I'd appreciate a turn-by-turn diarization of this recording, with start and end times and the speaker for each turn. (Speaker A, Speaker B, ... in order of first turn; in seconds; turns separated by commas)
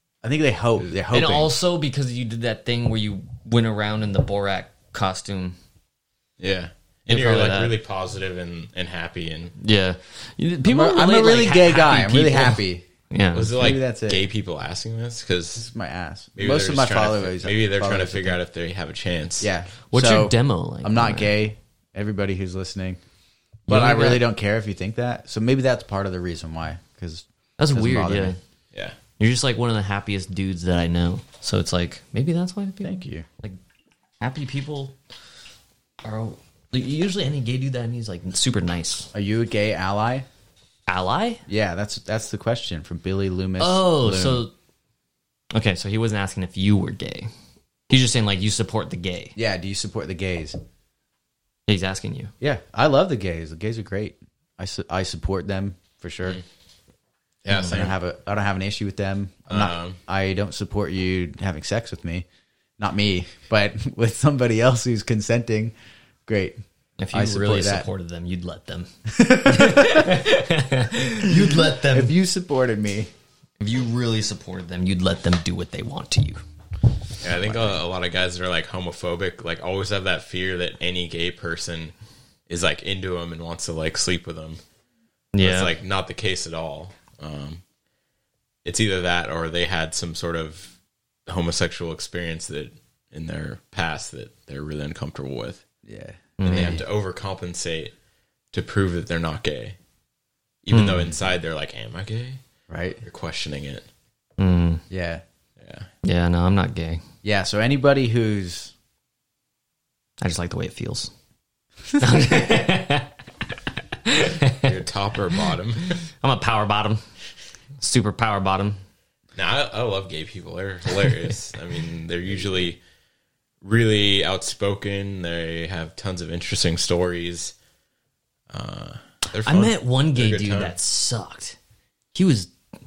Speaker A: 0.2-1.5, Speaker B: 1.1-5.6, Speaker C: 6.4-9.5, Speaker B: 7.1-7.8, Speaker B: 9.6-13.6, Speaker A: 10.7-12.9, Speaker C: 13.3-15.7, Speaker A: 13.6-14.3, Speaker A: 15.6-18.4, Speaker C: 16.4-19.5, Speaker A: 19.4-23.0, Speaker B: 19.9-21.4, Speaker A: 23.7-28.4, Speaker B: 23.7-24.3, Speaker B: 27.6-28.4, Speaker B: 29.2-33.6, Speaker A: 32.8-33.3, Speaker B: 34.2-35.0, Speaker B: 36.0-39.1, Speaker A: 39.1-40.3, Speaker B: 40.9-41.4, Speaker A: 41.5-44.5, Speaker B: 43.6-44.5, Speaker B: 45.5-47.3, Speaker B: 47.9-49.4, Speaker A: 49.4-50.6, Speaker B: 51.7-52.3, Speaker A: 52.4-56.4, Speaker C: 57.5-58.0, Speaker A: 57.5-62.3, Speaker C: 59.5-60.0, Speaker A: 62.8-65.7, Speaker A: 66.3-66.6, Speaker B: 67.0-72.1, Speaker A: 67.1-67.9, Speaker A: 69.1-70.0, Speaker A: 71.2-73.1, Speaker B: 73.6-76.4, Speaker C: 77.2-81.9, Speaker C: 82.5-84.6, Speaker B: 85.3-85.7, Speaker C: 85.4-87.6, Speaker C: 88.7-90.7, Speaker C: 91.3-95.6, Speaker A: 95.9-96.8, Speaker B: 96.4-96.8, Speaker C: 96.5-97.9, Speaker C: 98.5-99.8, Speaker C: 100.6-102.4, Speaker B: 100.7-101.1, Speaker A: 102.7-103.0, Speaker C: 103.0-103.9, Speaker B: 104.4-104.8, Speaker A: 104.9-105.2, Speaker C: 105.6-105.9, Speaker B: 106.0-107.0, Speaker A: 107.2-108.7, Speaker B: 110.2-111.1, Speaker B: 112.0-113.1, Speaker B: 114.0-114.7, Speaker C: 114.6-116.0, Speaker B: 116.2-117.0, Speaker B: 117.8-118.8, Speaker C: 119.3-122.8, Speaker C: 123.6-127.5, Speaker C: 128.5-130.8, Speaker B: 129.4-131.6, Speaker B: 132.1-132.5